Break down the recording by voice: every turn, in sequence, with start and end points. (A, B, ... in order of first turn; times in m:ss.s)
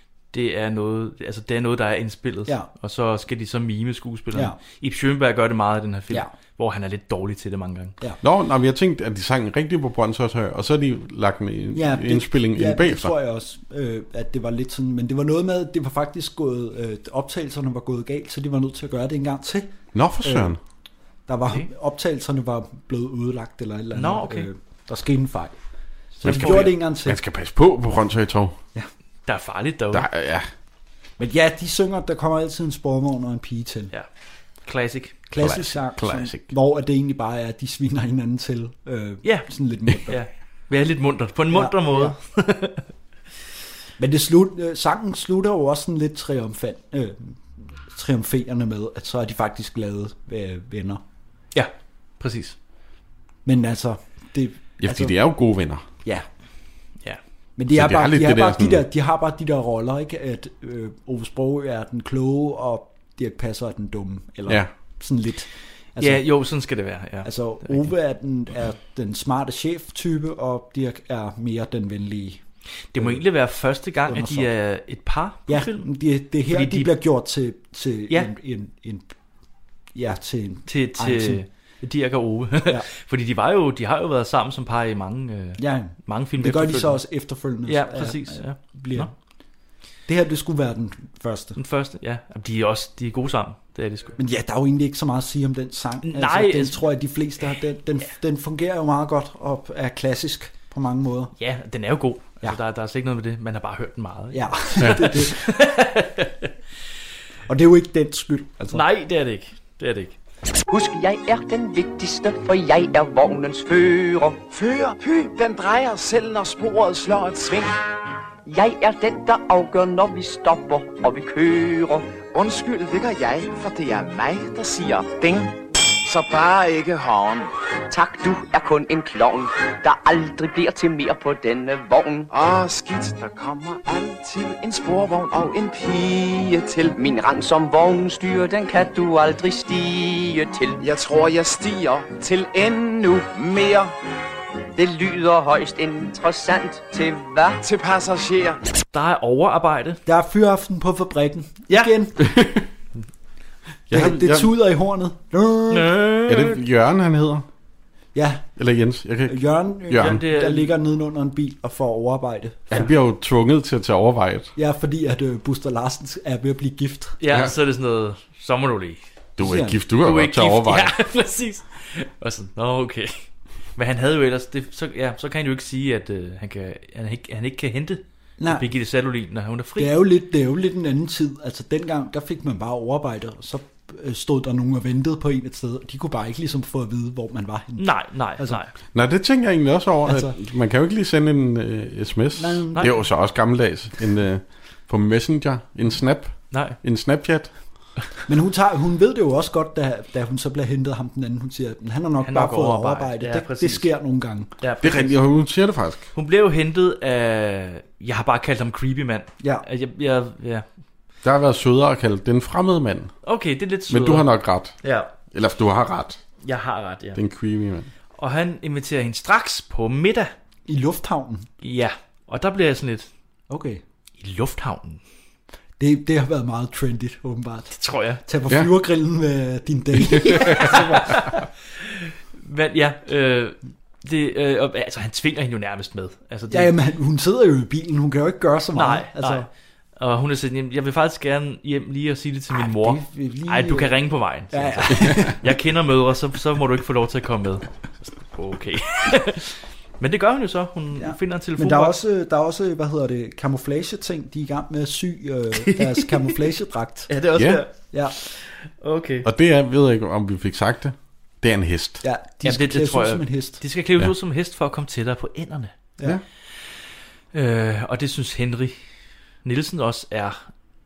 0:00.3-0:08.0 A
0:08.2-0:13.1 B
0:11.7-0:20.6 C
0:19.9-0:20.6 B
0:21.3-0:25.6 C
0:23.9-0:24.5 A
0:26.2-0:26.8 A
0:26.2-0:27.2 C
0:26.2-0:28.6 B
0:29.3-0:30.1 A
0:29.9-0:30.5 B
0:31.2-0:33.9 C
0:34.6-0:35.2 A
0:35.3-0:40.2 C
0:35.4-0:36.5 B
0:39.2-0:42.9 A
0:41.5-0:42.2 C
0:44.0-0:51.0 C
0:51.5-0:52.6 A
0:53.4-0:55.1 C
0:54.8-0:55.8 B
0:57.6-1:06.2 C
0:57.7-0:58.8 B
1:06.0-1:07.9 A
1:07.2-1:12.4 C
1:12.9-1:15.9 A
1:13.0-1:13.2 C
1:14.1-1:14.5 C
1:15.5-1:19.1 C
1:16.5-1:16.9 A
1:19.9-1:21.4 C
1:20.7-1:27.0 A
1:25.6-1:29.1 C
1:27.6-1:29.1 A
1:30.1-1:31.6 C
1:31.6-1:34.2 A
1:34.2-1:41.3 C
1:36.0-1:36.8 A
1:41.4-1:46.5 A
1:44.3-1:45.4 C
1:44.8-1:45.0 B
1:47.5-1:48.8 C
1:48.7-1:50.2 A
1:50.7-1:54.4 D
1:54.5-1:57.7 E
1:58.5-2:02.2 D
2:02.3-2:07.5 E
2:07.9-2:12.3 D
2:12.3-2:16.9 E
2:16.8-2:20.8 D
2:20.8-2:23.9 E
2:24.8-2:27.6 D
2:27.6-2:28.6 E
2:28.9-2:30.0 A
2:30.1-2:32.2 C
2:32.2-2:32.6 B
2:33.9-2:34.5 B
2:33.9-2:36.0 C
2:35.7-2:36.6 A
2:36.3-2:37.5 B
2:38.2-2:38.5 C
2:38.6-2:40.2 B
2:39.3-2:42.8 C
2:40.0-2:40.7 A
2:42.7-2:44.5 B
2:44.6-2:47.2 C
2:47.2-2:49.0 A
2:47.3-2:47.5 B
2:49.4-2:50.9 B
2:49.4-2:49.8 C
2:50.0-3:00.0 A
2:58.4-2:58.7 C
2:59.8-3:08.6 C
3:07.8-3:08.7 A
3:08.9-3:17.5 B
3:10.0-3:10.4 C
3:12.4-3:12.9 C
3:16.5-3:16.8 A
3:18.3-3:24.9 C
3:22.2-3:23.9 A
3:24.6-3:25.1 A
3:24.8-3:26.1 B
3:26.2-3:30.7 A
3:29.4-3:29.6 C
3:31.2-3:33.1 B
3:33.2-3:34.3 A
3:33.9-3:34.8 B
3:34.8-3:35.1 A
3:35.3-3:36.2 B
3:36.4-3:37.2 A
3:37.2-3:37.9 B
3:38.2-3:40.3 A
3:40.7-3:41.5 C
3:41.6-3:43.1 A
3:43.5-3:43.8 C
3:44.2-3:45.0 A
3:45.8-3:51.4 C
3:47.7-3:48.2 A
3:50.1-3:56.7 A
3:50.2-3:50.6 B
3:56.5-3:59.5 C
3:58.8-4:12.0 A
4:02.6-4:04.0 C
4:04.5-4:05.6 C
4:11.0-4:17.1 C
4:15.6-4:16.4 A
4:17.1-4:19.3 A
4:17.4-4:17.6 B
4:19.2-4:22.0 B
4:22.0-4:23.6 C
4:22.4-4:25.8 A
4:27.3-4:28.8 A
4:29.4-4:30.4 A